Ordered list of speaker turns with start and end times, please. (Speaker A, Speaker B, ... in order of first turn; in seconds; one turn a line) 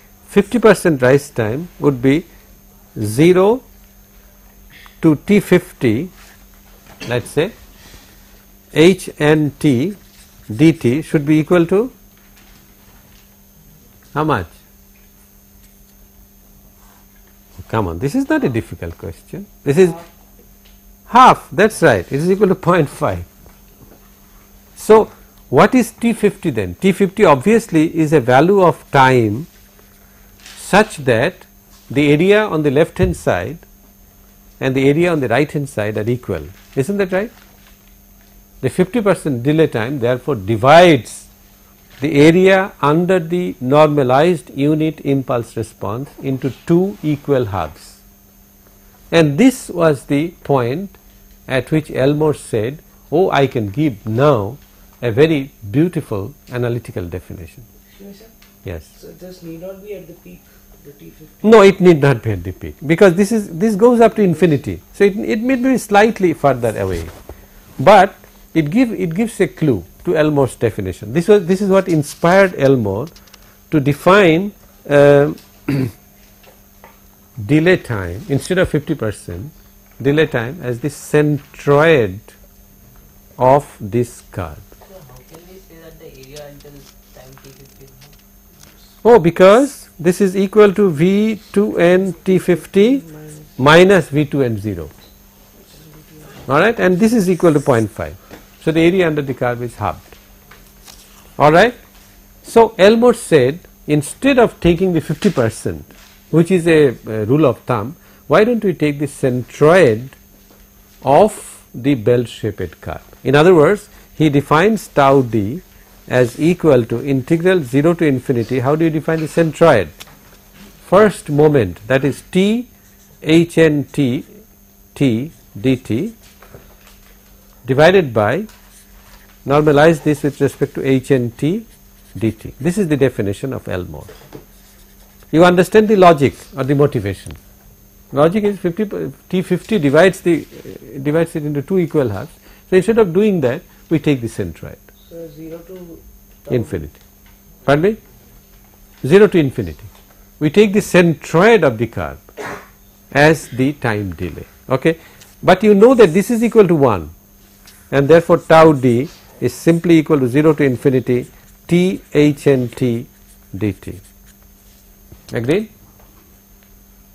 Speaker A: 0.3-2.2
Speaker A: 3.0-3.6
Speaker A: 5.0-6.1
Speaker A: 7.0-7.5
Speaker A: 8.7-10.0
Speaker A: 10.5-11.9
Speaker A: 14.1-14.6
Speaker A: 17.7-20.0
Speaker A: 21.1-23.3
Speaker A: 24.8-29.5
Speaker A: 30.6-33.6
Speaker A: 34.6-37.3
Speaker A: 38.6-41.3
Speaker A: 42.0-48.0
Speaker A: 49.1-51.0
Speaker A: 51.5-57.7
Speaker B: 57.9-58.3
Speaker B: 58.9-61.4
Speaker A: 61.4-67.1
Speaker A: 67.8-73.1
Speaker A: 73.7-75.9
Speaker A: 77.4-82.3
Speaker A: 83.4-84.6
Speaker C: 84.8-88.2
Speaker A: 89.0-93.0
Speaker B: 91.9-93.5
Speaker A: 93.6-94.9
Speaker B: 95.7-96.4
Speaker A: 96.5-100.1
Speaker A: 101.4-101.8
Speaker A: 102.4-110.2
Speaker A: 111.0-119.9
Speaker A: 120.8-122.7
Speaker A: 123.2-124.3
Speaker A: 124.9-126.1
Speaker A: 127.6-128.5
Speaker A: 129.4-134.1
Speaker A: 135.3-137.4
Speaker A: 138.1-144.8
Speaker B: 145.1-146.8
Speaker A: 146.5-146.9
Speaker A: 147.6-148.0
Speaker A: 149.0-152.2
Speaker A: 153.1-157.1
Speaker A: 157.9-164.0
Speaker A: 165.3-165.7